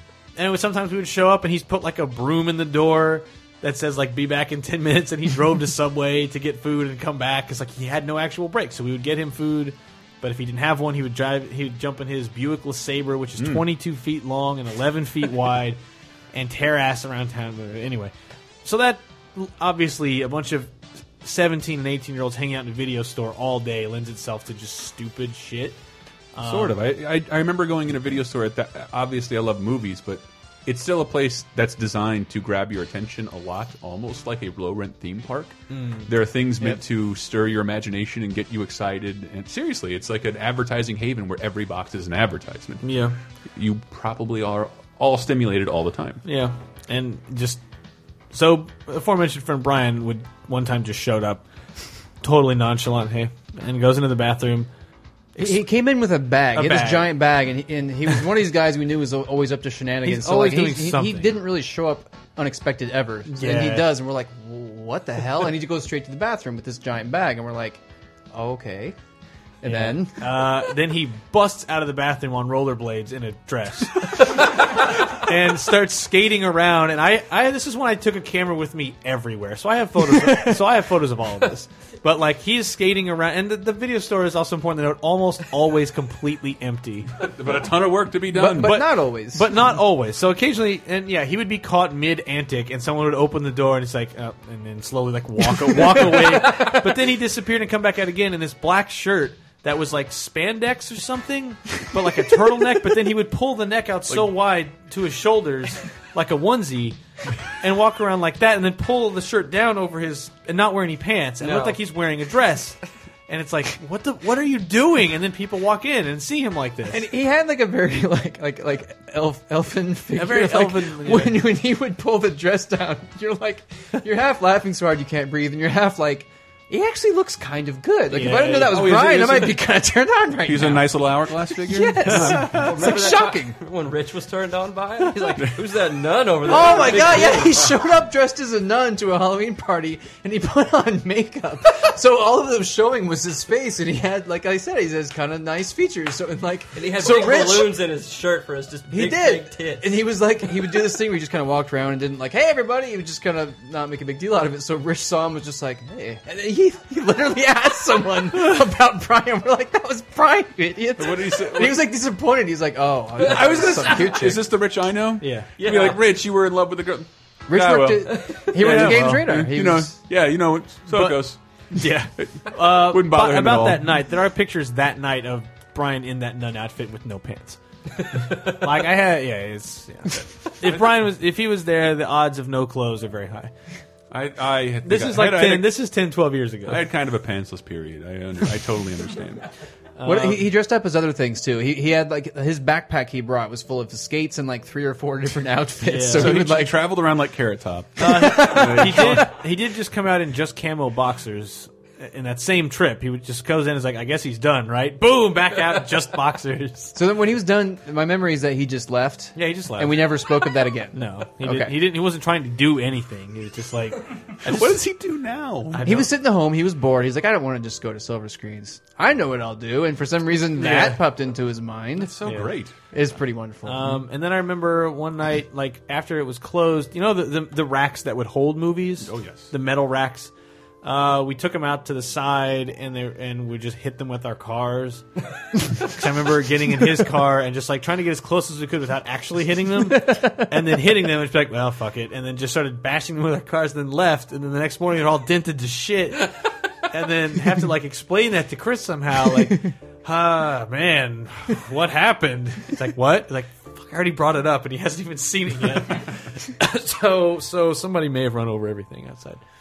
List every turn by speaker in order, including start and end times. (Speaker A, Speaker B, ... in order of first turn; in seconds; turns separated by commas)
Speaker A: 0.3-15.8, Speaker B: 13.4-13.7, Speaker A: 16.3-18.1, Speaker A: 18.6-25.8, Speaker A: 26.3-26.8, Speaker B: 26.4-46.2, Speaker A: 35.7-36.1, Speaker A: 42.8-43.1, Speaker A: 46.2-47.6, Speaker A: 48.3-51.4, Speaker A: 52.2-54.7, Speaker A: 55.4-55.6, Speaker C: 55.4-67.8, Speaker A: 56.5-57.2, Speaker A: 60.0-61.4, Speaker A: 63.3-63.9, Speaker C: 68.3-69.0, Speaker C: 69.6-70.3, Speaker A: 69.6-87.2, Speaker B: 87.1-88.9, Speaker C: 88.3-89.5, Speaker A: 88.6-107.0, Speaker B: 104.1-104.4, Speaker A: 107.5-117.0, Speaker D: 111.4-111.8, Speaker C: 116.9-133.6, Speaker A: 120.1-121.4, Speaker A: 128.1-129.4, Speaker B: 128.7-129.3, Speaker D: 129.1-129.4, Speaker B: 130.4-132.7, Speaker A: 132.1-132.5, Speaker D: 132.5-137.8, Speaker C: 136.4-147.8, Speaker D: 146.7-150.0, Speaker C: 148.9-164.5, Speaker B: 160.9-161.9, Speaker B: 163.2-171.4, Speaker A: 165.2-165.5, Speaker D: 165.6-166.0, Speaker C: 167.5-169.9, Speaker A: 168.6-169.2, Speaker A: 170.9-183.5, Speaker B: 172.2-173.8, Speaker B: 180.6-180.9, Speaker B: 184.1-185.8, Speaker A: 184.8-186.9, Speaker B: 186.7-189.5, Speaker A: 190.0-190.5, Speaker C: 190.0-196.8, Speaker A: 195.8-196.3, Speaker B: 196.1-199.3, Speaker A: 198.0-207.0, Speaker C: 198.0-199.3, Speaker C: 206.9-211.8, Speaker A: 209.3-210.2, Speaker A: 210.9-214.9, Speaker B: 214.4-216.1, Speaker A: 215.7-216.1, Speaker C: 215.8-222.2, Speaker A: 220.5-221.0, Speaker B: 221.9-222.7, Speaker A: 222.2-222.5, Speaker C: 222.9-224.0, Speaker A: 223.6-230.3, Speaker B: 229.0-229.5, Speaker A: 230.8-235.0, Speaker A: 235.6-246.3, Speaker C: 239.9-240.4, Speaker A: 246.9-259.4